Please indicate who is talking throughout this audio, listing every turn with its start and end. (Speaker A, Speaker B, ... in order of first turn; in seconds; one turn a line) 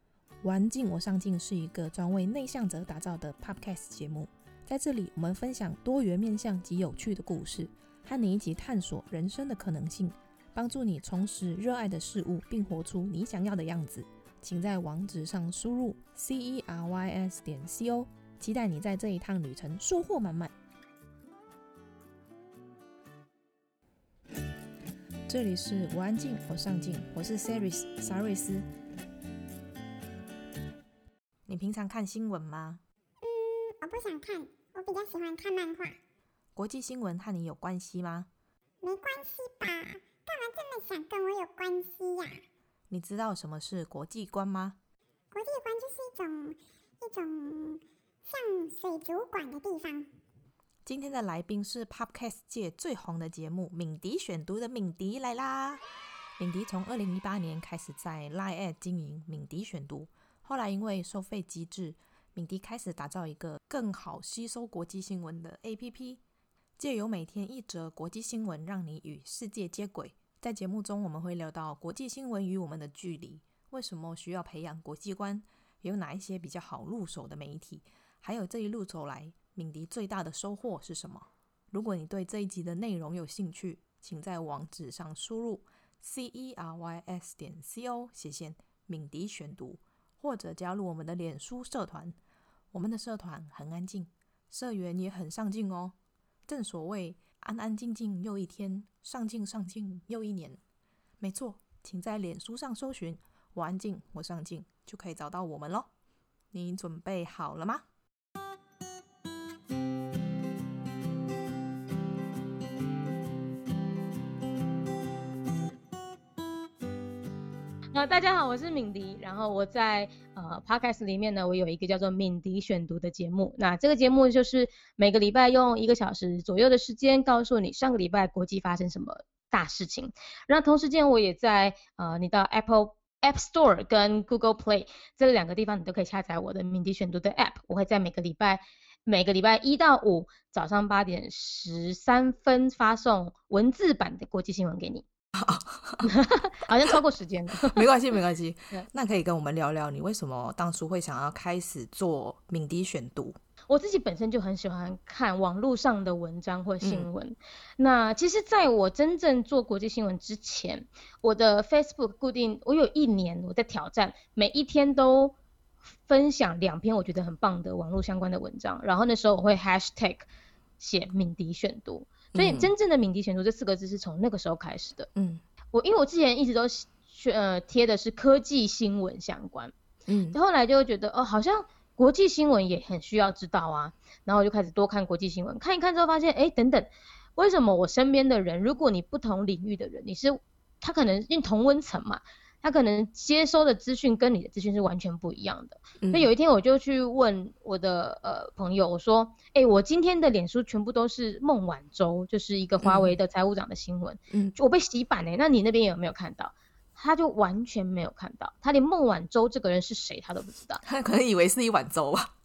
Speaker A: 0.4-20.5
Speaker A: 25.3-28.6
Speaker A: 31.5-32.8
Speaker B: 33.2-36.0
Speaker A: 36.5-38.3
Speaker B: 38.8-42.4
Speaker A: 42.9-44.8
Speaker B: 45.3-50.1
Speaker A: 50.9-55.8
Speaker A: 56.4-66.2
Speaker A: 66.8-92.2
Speaker A: 92.7-95.9
Speaker A: 96.5-100.6
Speaker A: 101.2-105.9
Speaker A: 106.5-107.8
Speaker C: 117.9-145.1
Speaker A: 145.3-146.1
Speaker C: 146.0-147.8
Speaker A: 147.7-153.3
Speaker C: 153.7-165.3
Speaker A: 156.8-157.1
Speaker C: 166.1-170.3
Speaker C: 170.8-175.1
Speaker A: 172.3-172.7
Speaker A: 175.1-175.4
Speaker C: 175.7-179.7
Speaker A: 180.1-180.4
Speaker C: 180.3-210.8
Speaker A: 196.0-196.3
Speaker A: 202.8-203.1
Speaker A: 204.3-204.6
Speaker A: 210.8-212.3